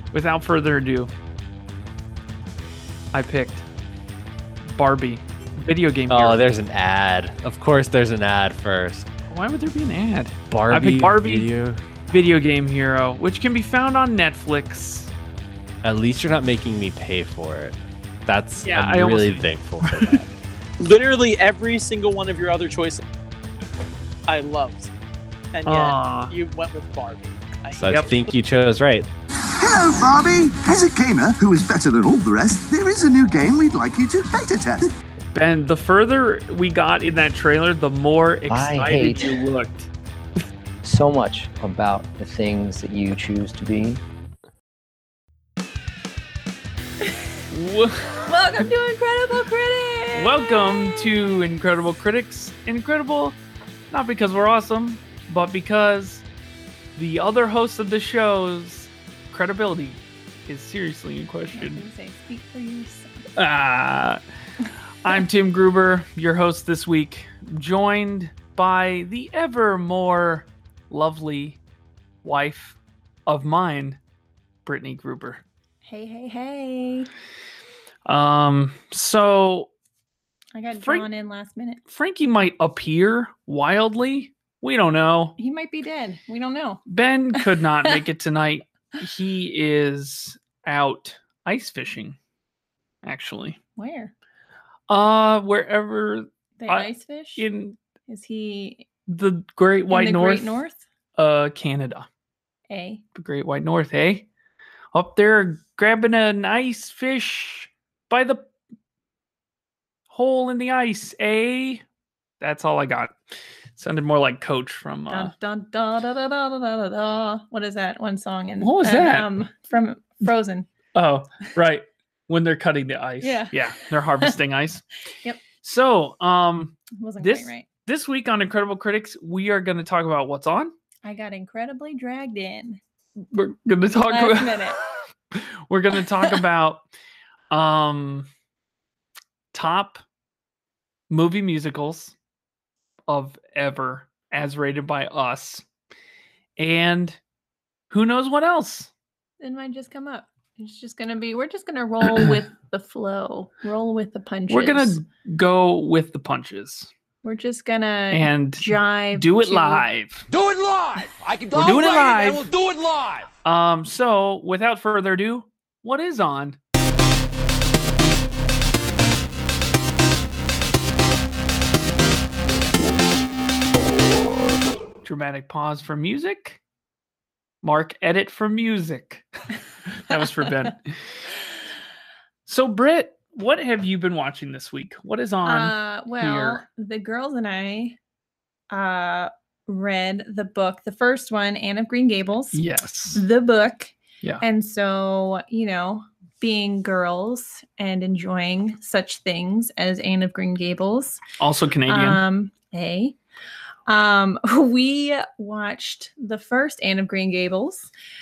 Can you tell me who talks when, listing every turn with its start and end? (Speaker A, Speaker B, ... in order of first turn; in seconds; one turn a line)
Speaker A: 0.1-1.1
Speaker A: 3.1-3.6
Speaker A: 4.7-6.4
Speaker B: 6.1-9.1
Speaker A: 9.3-11.5
Speaker B: 10.5-11.9
Speaker A: 12.1-15.1
Speaker B: 15.8-20.3
Speaker A: 18.6-20.2
Speaker C: 20.8-23.0
Speaker C: 24.3-24.9
Speaker C: 25.5-28.3
Speaker A: 25.6-26.3
Speaker B: 27.8-29.1
Speaker D: 29.6-34.9
Speaker A: 35.3-39.9
Speaker E: 38.5-39.4
Speaker E: 40.8-44.0
Speaker A: 47.5-48.6
Speaker F: 48.2-51.2
Speaker A: 50.1-53.4
Speaker A: 53.9-56.2
Speaker A: 57.0-61.8
Speaker F: 61.5-63.3
Speaker A: 63.4-64.2
Speaker A: 65.0-71.6
Speaker A: 72.2-74.0
Speaker A: 74.6-75.4
Speaker F: 75.8-77.1
Speaker A: 78.0-79.7
Speaker F: 80.5-81.8
Speaker A: 80.8-81.1
Speaker A: 81.8-85.4
Speaker F: 85.4-86.8
Speaker A: 86.9-92.2
Speaker F: 87.3-88.0
Speaker A: 93.0-93.6
Speaker F: 93.8-94.1
Speaker A: 94.9-97.8
Speaker F: 96.6-97.5
Speaker F: 98.1-98.8
Speaker A: 99.1-100.6
Speaker F: 99.9-100.8
Speaker A: 101.1-102.1
Speaker F: 102.7-103.0
Speaker A: 103.1-104.3
Speaker A: 104.9-108.5
Speaker A: 110.1-111.8
Speaker A: 112.4-113.2
Speaker A: 113.8-115.3
Speaker F: 115.1-120.7
Speaker A: 118.6-119.3
Speaker A: 120.9-124.8
Speaker F: 123.2-124.3
Speaker A: 125.6-130.7
Speaker F: 126.9-127.7
Speaker F: 131.0-132.8
Speaker A: 133.2-134.8
Speaker F: 134.1-134.8
Speaker A: 135.3-136.8
Speaker A: 137.5-138.3
Speaker A: 139.5-140.0
Speaker A: 141.1-142.1
Speaker A: 143.1-145.6
Speaker A: 146.6-147.2
Speaker A: 147.9-148.9
Speaker F: 149.4-155.0
Speaker A: 152.1-152.4
Speaker A: 154.5-156.9
Speaker F: 157.2-159.8
Speaker A: 158.1-160.2
Speaker G: 160.3-163.3
Speaker A: 161.5-162.5
Speaker A: 163.4-166.6
Speaker A: 175.0-176.6
Speaker A: 177.6-179.2
Speaker A: 179.9-181.0
Speaker F: 180.1-180.5
Speaker A: 182.4-186.6
Speaker F: 185.4-188.0
Speaker F: 188.7-201.2
Speaker A: 192.5-193.2
Speaker A: 201.4-202.2
Speaker F: 201.9-203.2
Speaker F: 203.9-207.9